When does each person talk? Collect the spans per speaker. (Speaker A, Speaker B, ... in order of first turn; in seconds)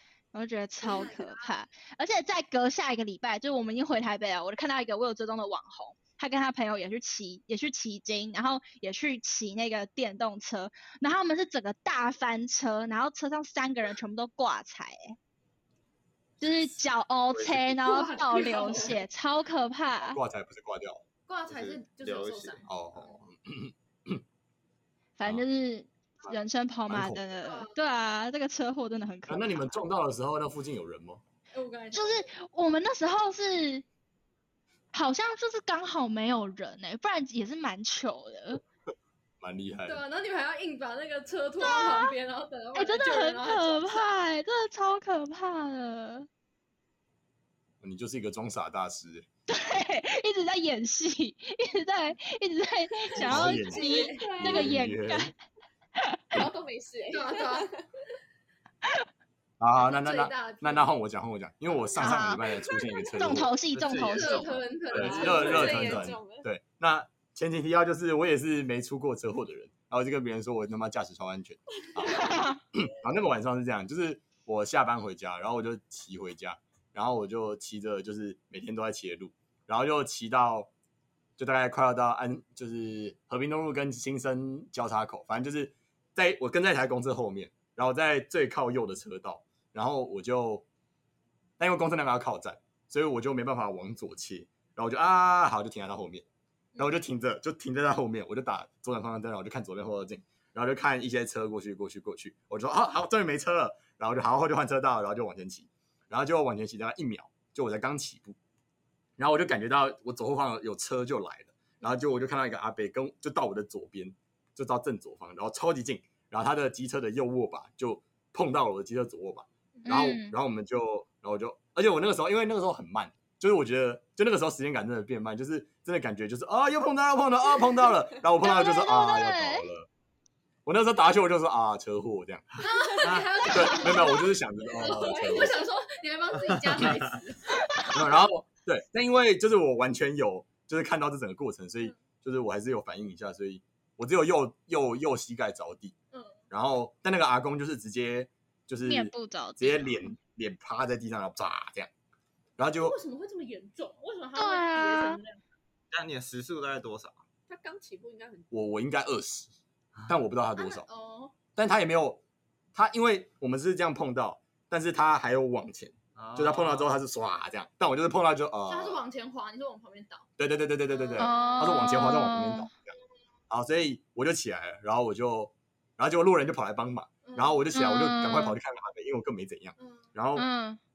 Speaker A: 0.3-15.1, 16.4-20.2, 25.2-29.8, 31.9-33.8, 34.9-38.6, 41.6-42.1, 42.8-46.3, 49.5-55.3, 56.0-56.4, 62.0-62.4, 63.1-64.6, 72.1-72.6, 119.9-120.4, 128.4-129.7, 148.8-150.1, 154.4-155.2, 171.2-172.7, 177.7-178.6, 180.4-180.8
Speaker B: 0.8-1.5, 17.8-19.0, 21.3-22.7, 27.4-27.7, 31.5-32.3, 39.9-44.1, 53.2-54.7, 57.1-57.8, 59.8-60.9, 63.9-66.0, 132.6-137.6, 146.1-146.4, 152.7-155.4, 160.6-161.3, 168.7-170.3, 170.9-172.2, 177.2-177.7, 179.8-180.1
Speaker C: 17.3-17.8, 20.0-21.0, 22.7-24.2, 26.9-27.2, 29.3-31.2, 39.4-40.0, 47.8-49.3, 53.2-55.3, 59.6-63.6, 64.9-80.7, 81.4-90.6, 91.6-96.2, 96.8-108.4, 109.2-129.9, 130.6-132.6, 133.5-135.6, 137.9-145.9, 146.5-151.9, 152.6-153.0, 158.5-159.5, 160.1-160.9, 161.6-162.2, 162.8-169.0, 170.4-172.9, 173.5-180.5
Speaker D: 21.5-22.7, 63.7-65.8, 136.7-137.0, 155.9-157.2, 166.2-166.9
Speaker E: 53.2-54.5, 56.3-57.9, 65.0-66.5, 157.5-158.5